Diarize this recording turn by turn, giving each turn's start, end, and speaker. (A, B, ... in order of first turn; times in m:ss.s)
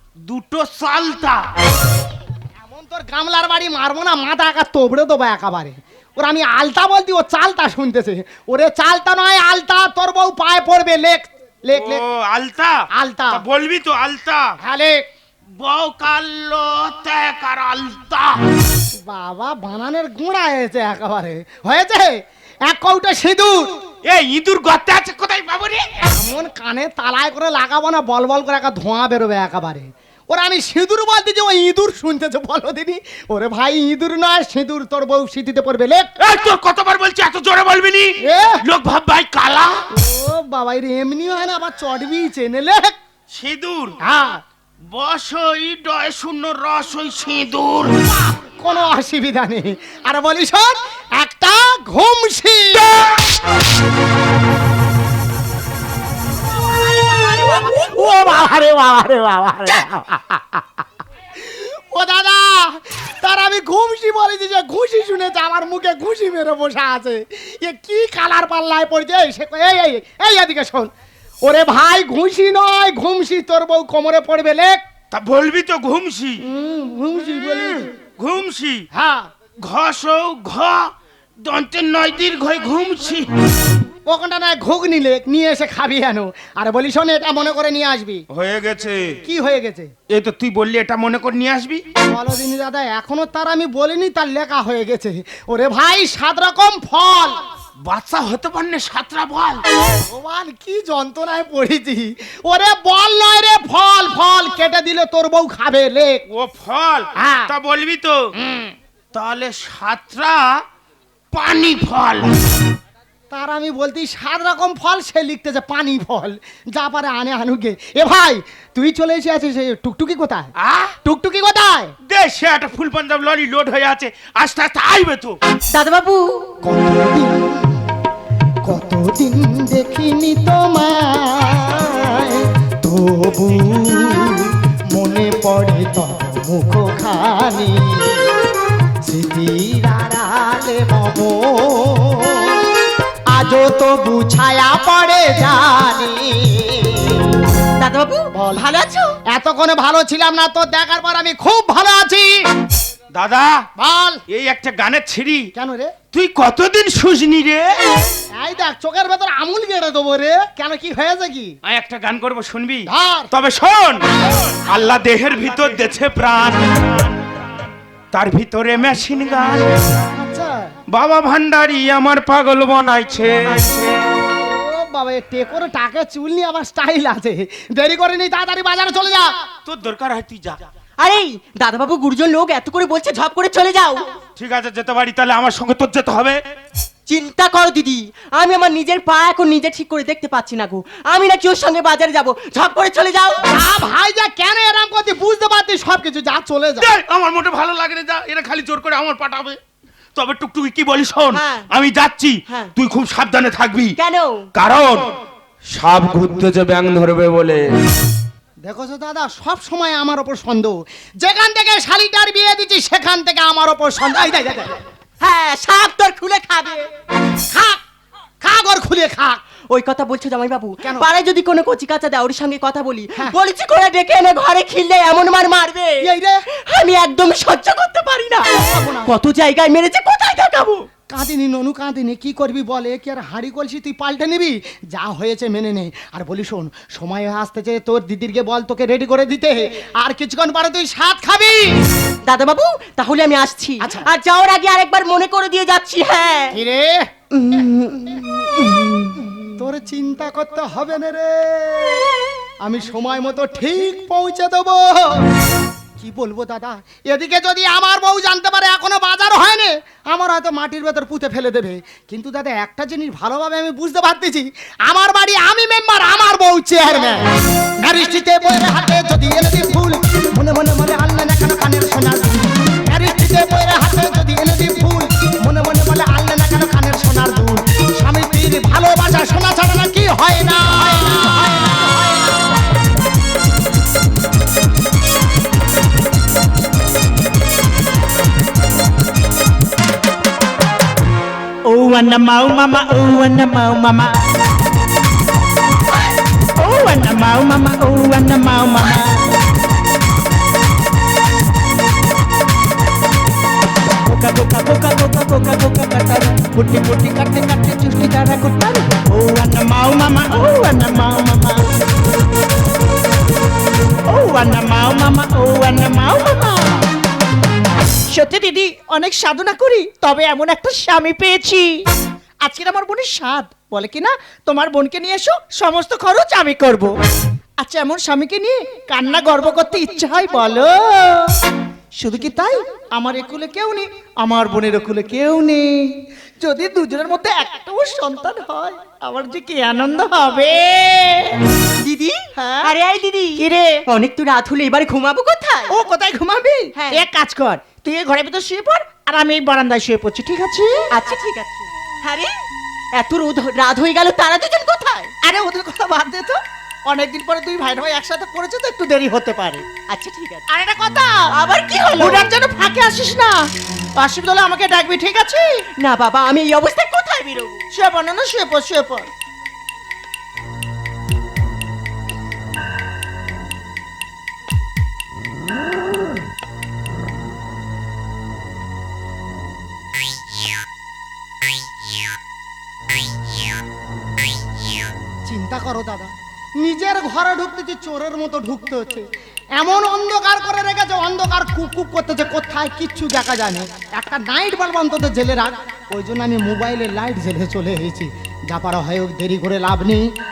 0:00.3-0:01.4 A
0:02.6-0:12.0 B
0:11.7-0:12.7 A
0:13.0-0:13.4 B
0:13.3-0:14.5 A
0:14.6-0:15.0 B
0:15.6-0:18.4 A
0:19.0-0:23.8 B
0:24.0-0:26.0 A
0:26.1-0:36.1 B
0:36.2-0:39.8 A
0:38.2-0:38.6 B
0:39.9-0:42.9 B
0:43.3-0:44.0 A
0:44.0-0:44.4 B
0:44.9-0:48.2 A
0:48.6-0:53.2 B
0:57.0-1:00.7 B
1:01.4-1:10.9 B
1:11.4-1:14.8 B
1:15.1-1:16.4 A
1:16.4-1:17.9 B
1:18.2-1:18.8 A
1:18.9-1:19.3 B
1:19.6-1:20.9 A
1:21.4-1:23.3 A
1:24.1-1:28.2 B
1:28.3-1:29.2 A
1:29.2-1:29.9 B
1:30.1-1:31.8 A
1:32.0-1:37.4 B
1:37.8-1:39.6 A
1:39.9-1:46.2 B
1:46.3-1:48.2 A
1:47.2-1:47.5 B
1:48.4-1:48.7 B
1:49.1-1:50.6 A
1:51.3-1:52.4 A
1:53.3-2:00.5 B
2:00.6-2:01.0 A
2:01.0-2:01.9 B
2:02.1-2:05.4 A
2:05.7-2:06.5 C
2:06.6-2:07.8 B
2:08.6-2:18.4 B
2:19.1-2:22.7 B
2:23.3-2:27.4 B
2:27.8-2:29.2 C
2:28.4-2:28.6 B
2:29.3-2:32.3 B
2:33.2-2:33.5 A
2:33.8-2:34.2 B
2:34.3-2:35.5 A
2:35.6-2:36.0 B
2:36.1-2:37.8 A
2:38.4-2:41.5 B
2:41.6-2:44.0 A
2:42.9-2:43.3 B
2:44.6-2:47.1 A
2:48.1-2:49.7 A
2:50.1-2:50.7 B
2:50.9-2:54.0 A
2:54.3-2:59.3 B
2:59.6-3:00.6 A
3:01.0-3:04.1 C
3:04.4-3:06.4 A
3:07.1-3:13.4 C
3:13.5-3:16.9 B
3:16.8-3:19.6 A
3:20.2-3:23.9 A
3:21.3-3:21.7 C
3:24.0-3:24.5 C
3:24.6-3:25.0 A
3:25.7-3:27.6 A
3:28.6-3:34.8 B
3:35.2-3:36.9 C
3:37.5-3:37.8 B
3:38.4-3:39.4 B
3:39.7-3:46.0 C
3:40.8-3:41.1 B
3:46.0-3:46.4 B
3:46.7-3:48.5 C
3:48.6-3:49.1 B
3:49.1-3:50.8 C
3:51.1-4:01.7 B
4:02.2-4:06.6 C
4:03.8-4:04.1 B
4:06.5-4:07.1 B
4:07.5-4:07.8 C
4:09.5-4:15.3 B
4:16.0-4:27.2 B
4:27.8-4:42.6 B
4:51.6-4:54.2 D
4:56.6-4:59.3 D
5:04.1-5:11.6 D
5:14.1-5:16.9 D
5:18.1-5:21.9 D
5:22.4-5:26.9 D
5:27.6-5:31.4 D
5:32.0-5:41.4 D
5:41.8-5:45.8 C
5:42.4-5:42.7 D
5:43.4-5:43.8 D
5:45.7-5:50.9 D
5:46.8-5:47.0 C
5:50.9-5:52.3 C
5:53.0-5:55.1 C
5:55.2-5:59.6 D
5:59.9-6:00.5 C
6:00.5-6:01.2 D
6:01.3-6:02.3 C
6:02.0-6:05.6 D
6:05.8-6:07.6 C
6:07.8-6:09.1 D
6:25.3-6:29.0 B
6:29.6-6:40.0 B